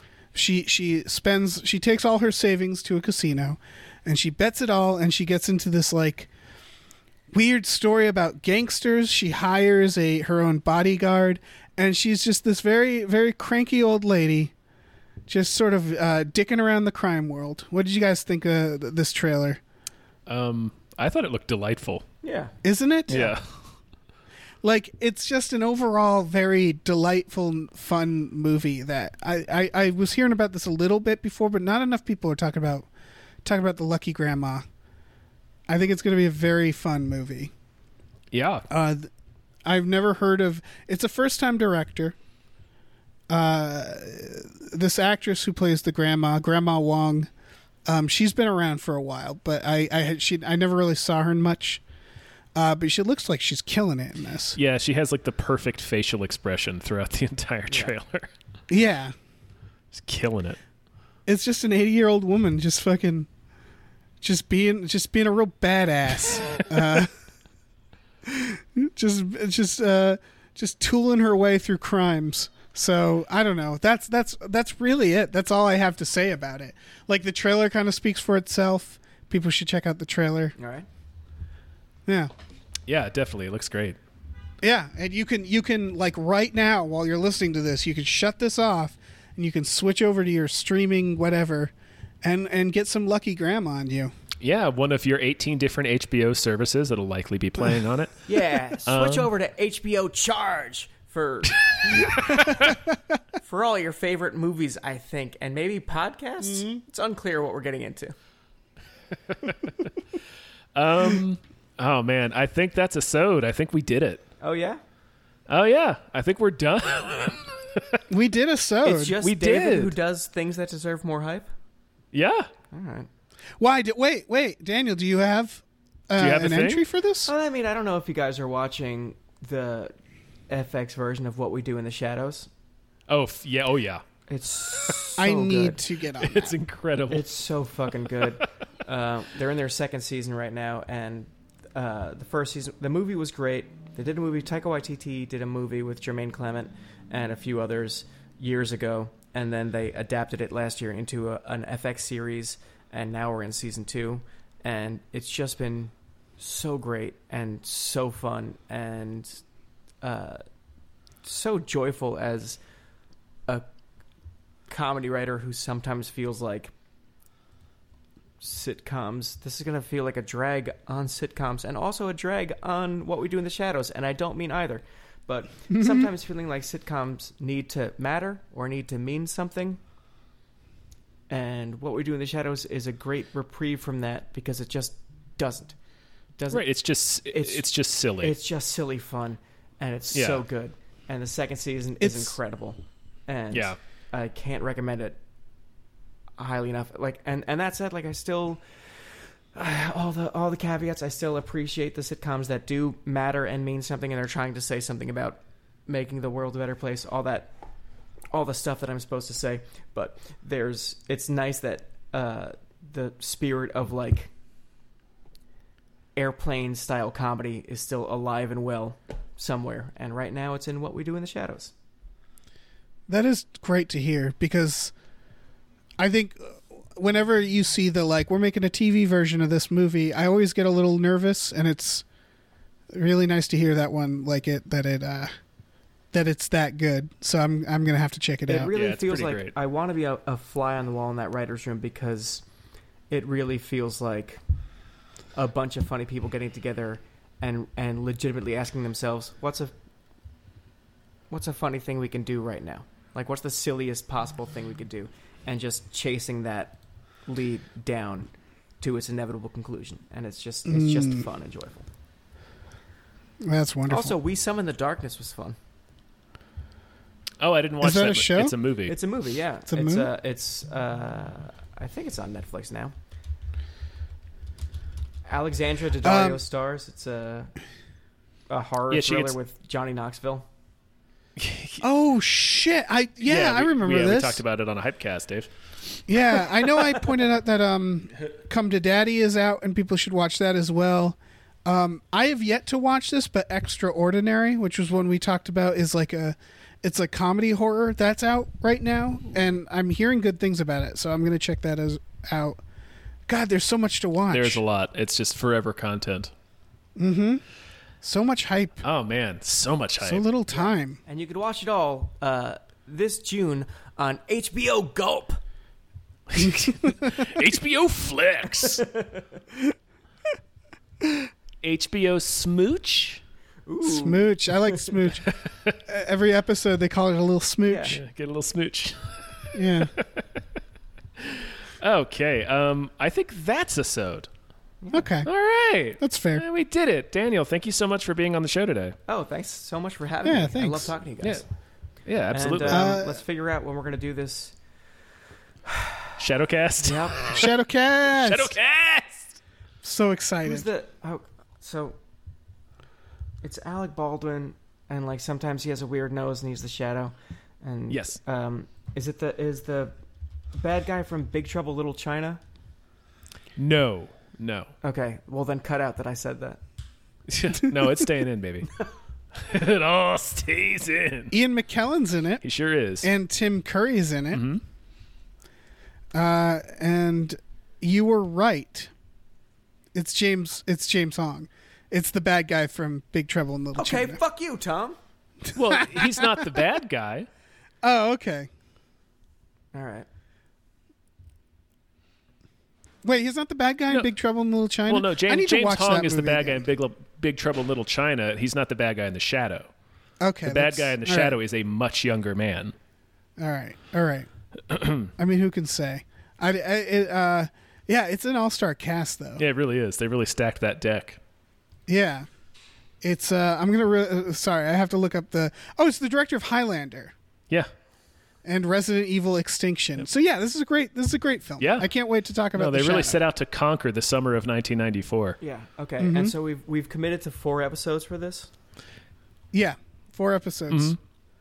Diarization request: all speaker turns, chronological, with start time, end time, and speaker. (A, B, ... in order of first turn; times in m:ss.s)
0:00.3-0:06.3 A
0:07.3-0:14.5 A
0:15.3-0:19.6 A
0:20.3-0:22.0 B
0:22.2-0:22.5 C
0:22.6-0:23.3 A
0:23.1-0:23.4 B
0:24.6-0:32.9 A
0:33.4-0:34.6 A
0:35.7-0:37.5 A
0:38.3-0:38.6 B
0:38.7-0:39.1 A
0:39.6-0:42.1 A
0:43.3-0:47.3 A
0:47.9-0:51.8 A
0:52.5-0:54.6 A
0:54.5-0:58.3 B
0:58.7-0:59.1 A
0:59.9-1:00.6 B
1:01.2-1:03.3 A
1:04.2-1:07.1 A
1:08.2-1:20.5 A
1:20.6-1:20.8 C
1:22.0-1:22.3 A
1:22.9-1:24.0 B
1:24.6-1:34.1 A
1:34.4-1:38.2 B
1:38.3-1:42.4 C
1:38.8-1:39.3 B
1:41.6-1:42.7 B
1:43.4-1:48.1 C
1:46.5-1:46.8 B
1:49.3-1:49.9 B
1:50.7-1:54.2 B
1:54.4-1:54.8 C
1:55.5-1:58.0 B
1:58.1-1:59.2 A
1:58.8-2:01.5 C
1:59.2-1:59.9 B
2:02.1-2:02.5 B
2:02.7-2:03.1 C
2:03.6-2:07.3 A
2:06.2-2:06.8 B
2:07.2-2:09.9 C
2:10.5-2:12.5 C
2:13.1-2:14.0 B
2:14.3-2:15.8 C
2:15.2-2:16.5 A
2:16.2-2:17.2 B
2:17.1-2:39.4 C
2:40.0-2:40.4 C
2:41.2-2:42.6 C
2:44.7-2:46.7 C
2:48.4-2:59.8 C
2:55.7-2:56.1 A
3:01.3-3:05.8 C
3:06.4-3:06.6 C
3:06.5-3:08.3 B
3:07.2-3:07.6 C
3:08.2-3:15.2 C
3:10.1-3:10.4 B
3:12.0-3:12.4 A
3:13.5-3:13.8 B
3:16.4-3:27.5 C
3:28.3-3:34.3 C
3:36.2-3:41.7 C
3:43.1-3:44.9 A
3:46.0-3:52.0 A
3:52.9-3:55.3 A
3:56.1-3:58.7 A
3:58.5-4:02.4 C
3:58.7-3:59.5 B
4:03.1-4:04.4 C
4:05.3-4:09.7 C
4:11.3-4:18.3 C
4:18.8-4:21.9 C
4:20.6-4:21.2 A
4:23.4-4:24.2 A
4:23.9-4:25.6 C
4:27.4-4:29.0 B
4:27.8-4:28.5 A
4:28.9-4:32.9 C
4:29.7-4:30.1 A
4:35.2-4:37.5 C
4:36.0-4:36.4 A
4:38.5-4:40.4 C
4:38.9-4:39.3 B
4:41.4-4:41.8 B
4:41.8-4:44.4 A
4:43.2-4:45.5 B
4:46.1-5:02.6 A
4:46.8-4:47.0 C
5:03.3-5:04.6 A
5:04.3-5:06.3 B
5:07.0-5:07.4 A
5:08.0-5:08.8 A
5:08.8-5:10.2 B
5:10.0-5:11.0 A
5:11.0-5:15.4 C
5:16.3-5:18.8 B
5:18.8-5:19.2 C
5:21.6-5:23.2 B
5:23.6-5:25.1 C
5:23.8-5:25.3 A
5:25.3-5:25.8 B
5:25.8-5:28.0 A
5:27.7-5:28.0 C
5:27.9-5:30.2 B
5:29.5-5:29.9 A
5:31.2-5:34.3 B
5:34.8-5:35.1 C
5:34.9-5:35.3 A
5:35.2-5:39.0 B
5:36.0-5:36.4 A
5:39.1-5:41.5 C
5:40.2-5:40.9 A
5:42.0-5:42.8 B
5:42.3-5:44.6 C
5:42.7-5:43.2 A
5:45.7-5:46.1 C
5:46.2-5:47.5 B
5:46.8-5:47.4 C
5:47.3-5:48.5 A
5:48.1-5:49.3 B
5:49.8-5:50.7 A
5:50.4-5:52.0 C
5:53.4-5:59.9 C
5:57.9-5:58.2 B
6:00.5-6:02.4 C
6:03.6-6:04.7 B
6:04.8-6:06.6 C
6:07.3-6:08.7 B
6:09.3-6:11.3 B
6:11.3-6:12.4 A
6:12.4-6:13.1 B
6:13.0-6:14.4 A
6:14.3-6:14.6 B
6:16.1-6:18.9 A
6:19.9-6:24.2 A
6:23.8-6:25.0 C
6:25.5-6:26.6 A
6:25.5-6:27.3 B
6:27.8-6:28.5 A
6:29.7-6:30.0 C
6:33.0-6:36.6 A
6:34.9-6:39.7 B
6:40.2-6:41.3 A
6:40.4-6:42.7 B
6:43.4-6:44.3 A
6:44.7-6:45.1 B
6:45.2-6:49.4 A
6:49.4-6:51.2 B
6:51.9-6:52.3 A
6:53.0-6:57.1 A
6:58.4-7:03.2 A
7:01.6-7:01.9 B
7:02.5-7:05.4 B
7:05.4-7:08.5 C
7:06.0-7:06.3 A
7:09.5-7:11.0 A
7:10.7-7:11.0 B